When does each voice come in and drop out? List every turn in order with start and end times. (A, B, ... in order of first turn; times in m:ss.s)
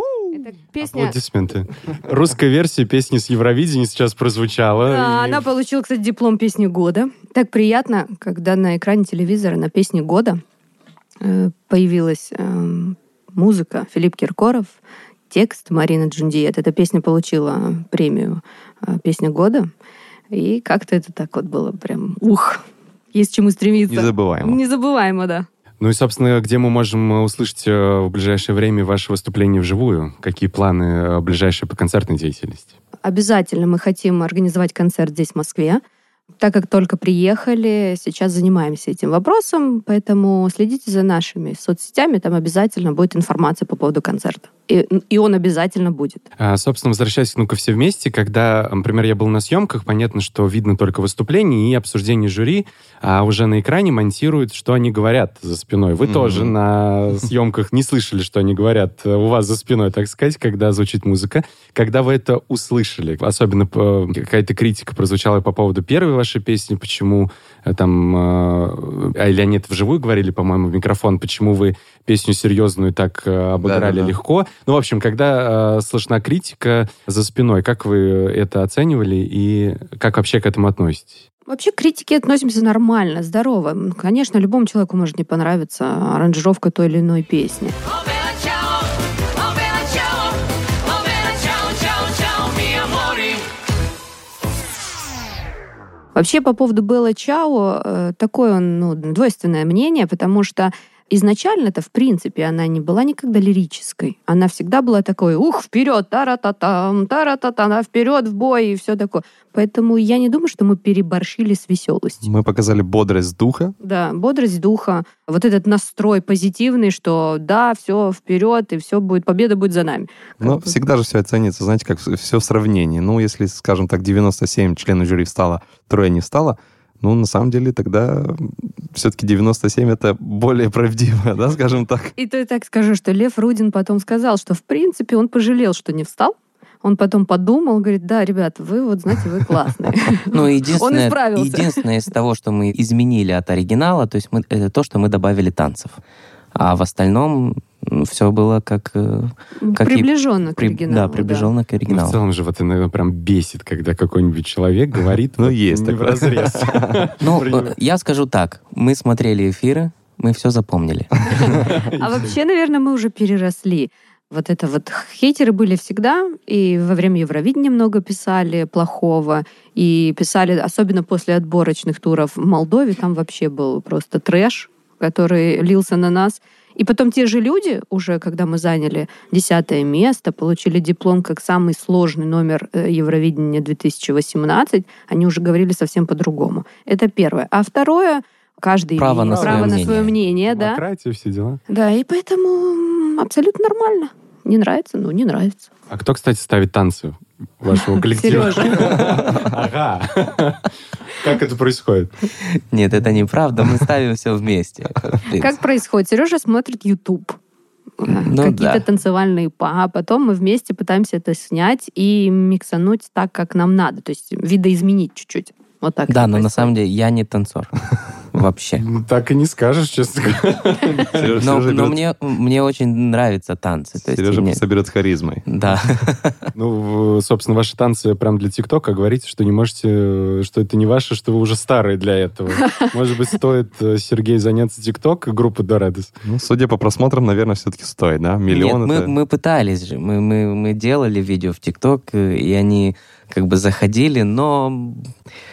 0:00.4-0:01.1 A
0:00.8-0:05.4 B
0:04.8-0:10.4 A
0:11.2-0:14.8 A
0:15.3-0:19.7 A
0:20.3-0:25.5 A
0:23.9-0:24.6 C
0:25.8-0:32.7 B
0:33.0-0:35.8 A
0:36.4-0:46.3 A
0:46.4-1:21.2 B
0:56.0-0:56.5 C
1:13.6-1:14.2 C
1:21.5-1:27.8 A
1:27.9-1:33.5 D
1:36.1-1:52.3 A
1:52.2-1:53.8 C
1:53.8-2:00.7 A
2:00.4-2:12.1 C
2:12.2-2:21.8 A
2:20.3-2:26.0 E
2:26.6-2:32.2 E
2:29.6-2:31.5 A
2:31.9-2:37.7 B
2:35.4-2:37.0 C
2:37.2-2:41.2 E
2:41.4-3:10.8 A
2:41.5-2:42.3 B
3:09.0-3:10.1 E
3:09.3-3:11.6 B
3:11.7-3:15.7 A
3:15.9-3:22.1 B
3:18.1-3:19.1 A
3:18.8-3:19.4 C
3:22.7-3:25.6 E
3:25.4-3:27.4 A
3:28.0-3:36.7 A
3:28.1-3:28.8 E
3:36.1-3:37.8 E
3:38.3-3:38.8 E
3:38.8-3:41.3 B
3:41.1-3:42.0 C
3:41.4-3:44.6 E
3:44.0-3:45.5 C
3:45.5-3:46.4 E
3:46.6-3:56.1 B
3:56.2-3:59.1 C
3:58.5-4:05.1 E